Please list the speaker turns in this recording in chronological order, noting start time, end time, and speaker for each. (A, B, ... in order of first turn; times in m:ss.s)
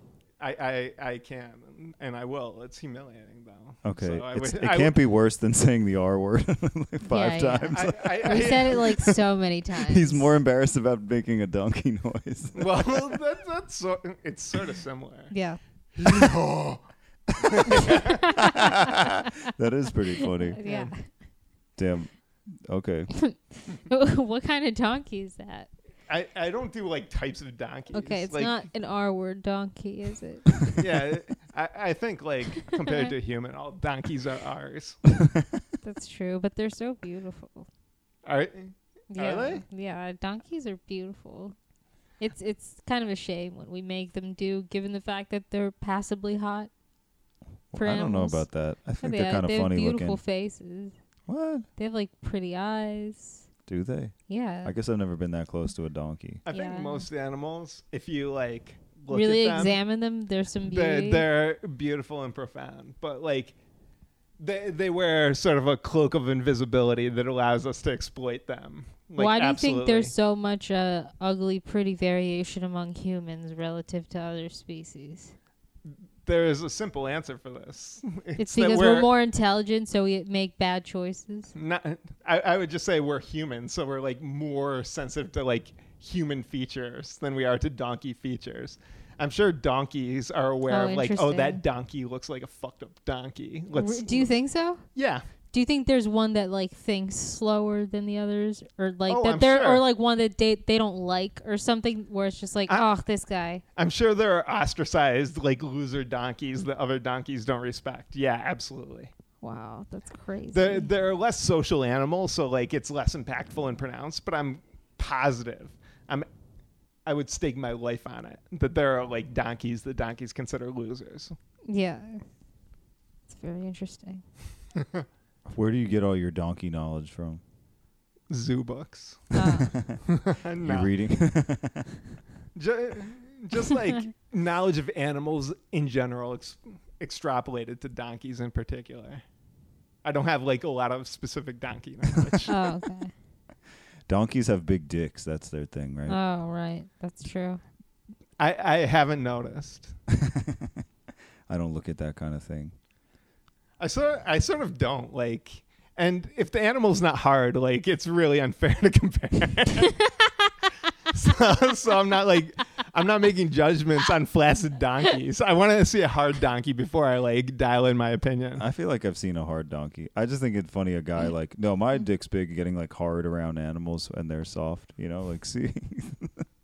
0:00.4-0:04.9 A
0:03.8-0:09.1 B
0:07.0-0:10.3 C
0:07.7-0:08.9 A
0:09.8-0:12.9 B
0:12.5-0:15.3 A
0:15.3-0:15.6 C
0:15.9-0:16.8 A
0:17.3-0:18.2 A
0:18.4-0:20.6 B
0:20.4-0:21.1 C
0:20.6-0:20.9 A
0:21.8-0:23.1 B
0:23.2-0:25.7 C
0:26.1-0:28.6 A
0:27.9-0:30.8 C
0:30.7-0:35.0 A
0:32.8-0:33.1 C
0:35.8-0:37.7 C
0:38.2-0:39.6 A
0:39.1-0:41.5 C
0:42.2-0:46.7 C
0:47.7-0:50.2 B
0:47.7-0:48.5 C
0:49.0-0:50.9 C
0:51.3-0:51.6 B
0:51.8-0:53.4 C
0:53.7-0:56.4 B
0:54.3-0:54.7 C
0:56.4-0:59.8 A
0:56.5-0:57.0 C
0:59.1-1:01.2 C
1:00.6-1:03.5 A
1:04.4-1:10.1 A
1:09.2-1:15.3 C
1:16.2-1:19.1 A
1:18.4-1:21.5 C
1:21.5-1:34.3 A
1:30.7-1:31.6 C
1:33.7-1:34.8 C
1:34.9-1:35.2 A
1:35.5-1:43.6 C
1:39.1-1:39.8 A
1:43.7-1:49.1 A
1:49.4-1:50.9 C
1:50.5-1:56.3 A
1:57.0-2:01.3 A
2:01.6-2:02.2 C
2:03.3-2:04.2 C
2:04.8-2:05.0 A
2:05.5-2:07.4 B
2:08.3-2:09.4 A
2:09.3-2:09.7 C
2:10.1-2:10.9 A
2:10.6-2:12.0 B
2:12.5-2:19.2 A
2:20.0-2:22.5 A
2:22.5-2:23.1 C
2:24.1-2:26.2 B
2:26.1-2:27.6 C
2:28.4-2:29.9 A
2:30.1-2:30.8 B
2:31.5-2:32.7 B
2:33.8-2:40.0 A
2:41.1-2:48.6 A
2:48.6-2:56.4 B